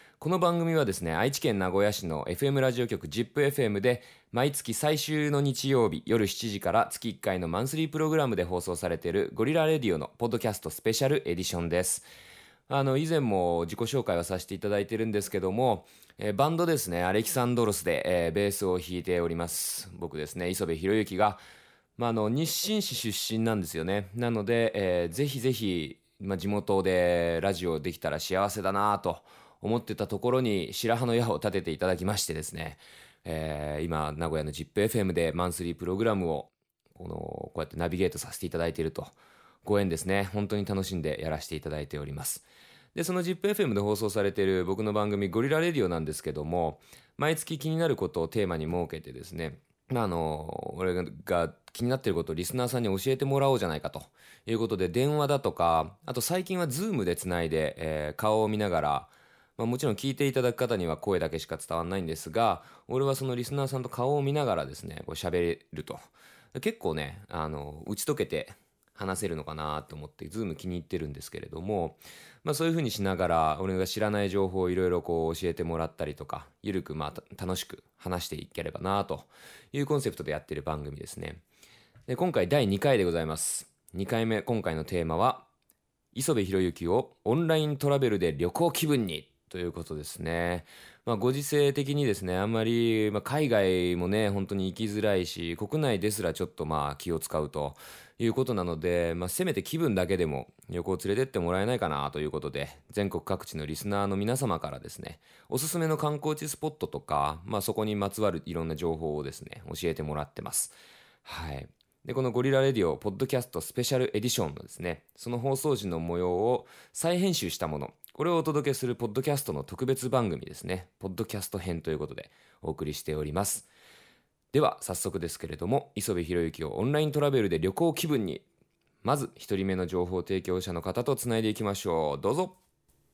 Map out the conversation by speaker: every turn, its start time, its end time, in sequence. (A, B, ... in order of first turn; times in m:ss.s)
0:00.2-0:12.1 A
0:12.7-0:21.4 A
0:22.0-1:21.4 A
1:22.1-1:25.5 A
1:26.1-2:03.7 A
2:04.5-2:08.4 A
2:09.0-2:12.6 A